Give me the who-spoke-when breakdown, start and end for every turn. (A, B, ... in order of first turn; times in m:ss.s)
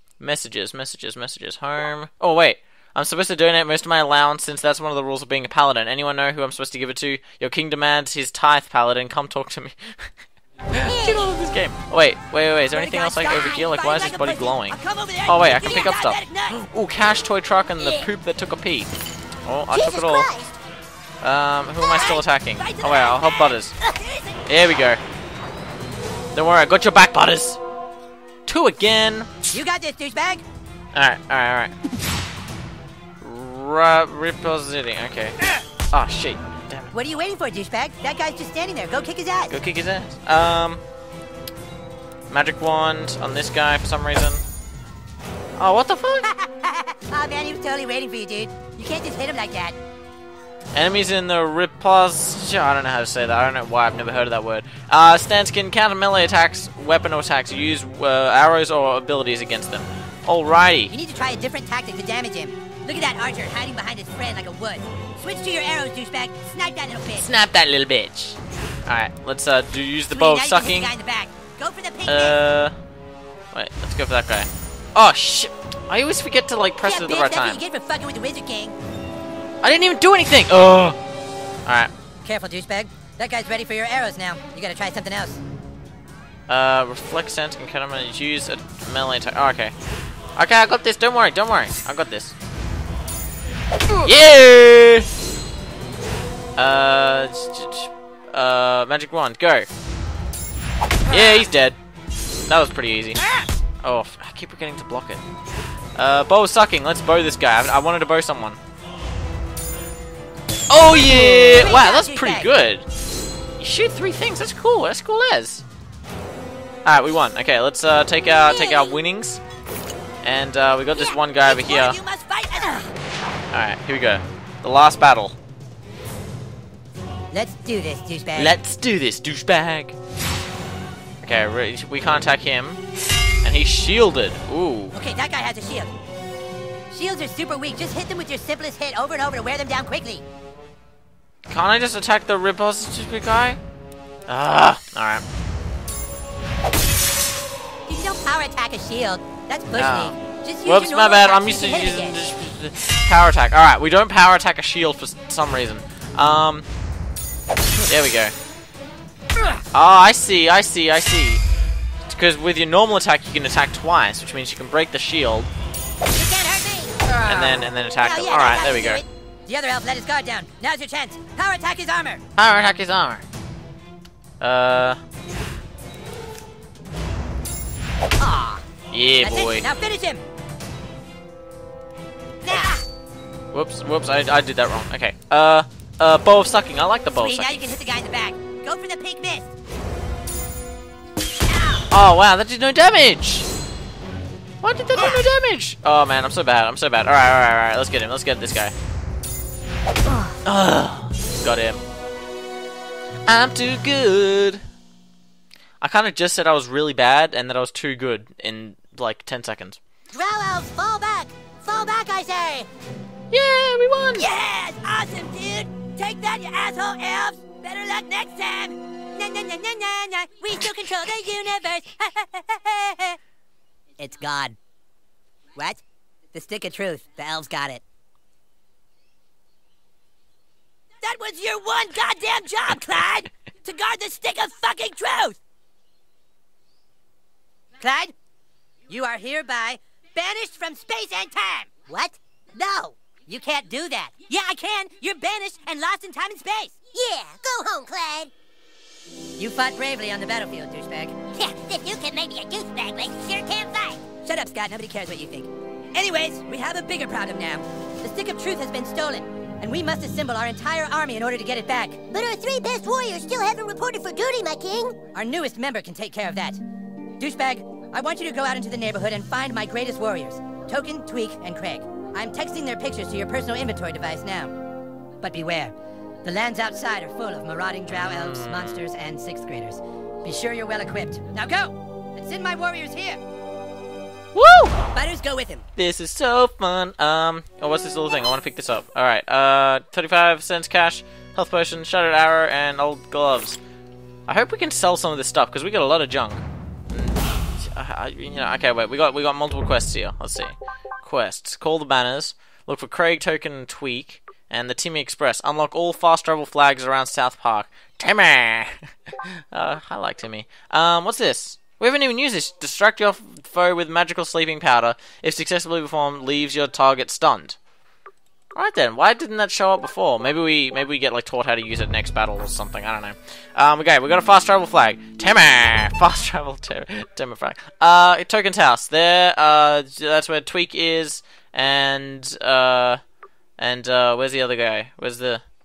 0:00.2-0:10.1 A
0:10.7-0:18.9 A
0:10.9-0:11.4 B
0:12.7-0:16.6 C
0:17.8-0:18.1 B
0:19.4-0:20.3 A
0:19.7-0:20.6 B
0:21.2-0:23.7 A
0:21.8-0:24.4 C
0:24.5-0:25.0 A
0:26.3-0:27.6 A
0:28.5-0:29.3 A
0:29.5-0:30.4 C
0:30.9-0:31.7 A
0:33.2-0:35.4 A
0:35.9-0:36.9 A
0:36.9-0:39.6 C
0:39.5-0:40.8 A
0:42.3-0:44.4 A
0:45.6-0:46.3 A
0:46.2-0:49.8 C
0:50.7-1:00.9 A
1:00.9-1:07.3 C
1:07.2-1:10.9 A
1:10.1-1:12.4 C
1:12.1-1:12.7 A
1:13.5-1:17.6 A
1:16.8-1:18.8 C
1:19.6-1:21.0 A
1:21.7-1:21.9 A
1:22.2-1:25.4 C
1:26.5-1:29.7 A
1:30.4-1:32.4 A
1:34.0-1:35.1 A
1:36.6-1:39.7 A
1:41.1-1:41.8 A
1:42.5-1:43.2 A
1:43.8-1:45.2 A
1:46.0-1:48.6 A
1:50.7-1:52.8 A
1:51.0-1:52.5 C
1:53.6-1:55.6 A
1:56.8-1:59.4 A
1:58.5-1:58.8 B
2:00.2-2:02.0 A
2:01.0-2:02.9 C
2:03.5-2:05.4 A
2:07.3-2:08.6 C
2:08.4-2:10.0 A
2:11.2-2:12.8 A
2:13.4-2:15.0 A
2:14.9-2:15.9 C
2:16.9-2:20.2 C
2:21.5-2:23.6 A
2:24.3-2:25.2 A
2:27.9-2:32.3 C
2:29.8-2:36.7 A
2:37.9-2:38.3 A
2:39.7-2:41.4 A
2:42.1-2:45.5 A
2:46.1-2:47.0 B
2:47.2-2:52.2 C
2:47.2-2:49.0 A
2:52.4-2:53.2 A
2:54.4-2:55.0 A
2:58.2-2:58.7 C
2:58.9-2:59.7 A
2:59.2-3:00.2 C
3:02.4-3:02.8 C
3:03.5-3:07.6 A
3:07.1-3:09.5 C
3:11.5-3:11.8 C
3:11.9-3:13.5 A
3:14.6-3:18.7 A
3:20.4-3:21.8 A
3:23.3-3:24.6 A
3:25.8-3:29.8 A
3:30.1-3:32.7 C
3:33.3-3:34.3 A
3:34.2-3:43.2 C
3:44.0-3:44.6 C
3:45.6-3:45.8 C
3:46.3-3:47.8 C
3:51.0-3:55.4 C
3:57.8-3:58.1 C
3:58.9-4:06.8 C
4:06.9-4:08.3 B
4:09.4-4:11.2 C
4:11.3-4:14.0 B
4:14.2-4:22.0 C
4:22.1-4:25.0 B
4:25.2-4:26.6 C
4:27.2-4:34.6 C
4:35.2-4:43.2 C
4:37.9-4:38.8 A
4:44.4-4:44.8 A
4:44.9-4:45.7 C
4:45.8-4:53.6 A
4:54.3-5:17.6 A
5:18.6-5:33.0 A
5:33.6-5:35.4 A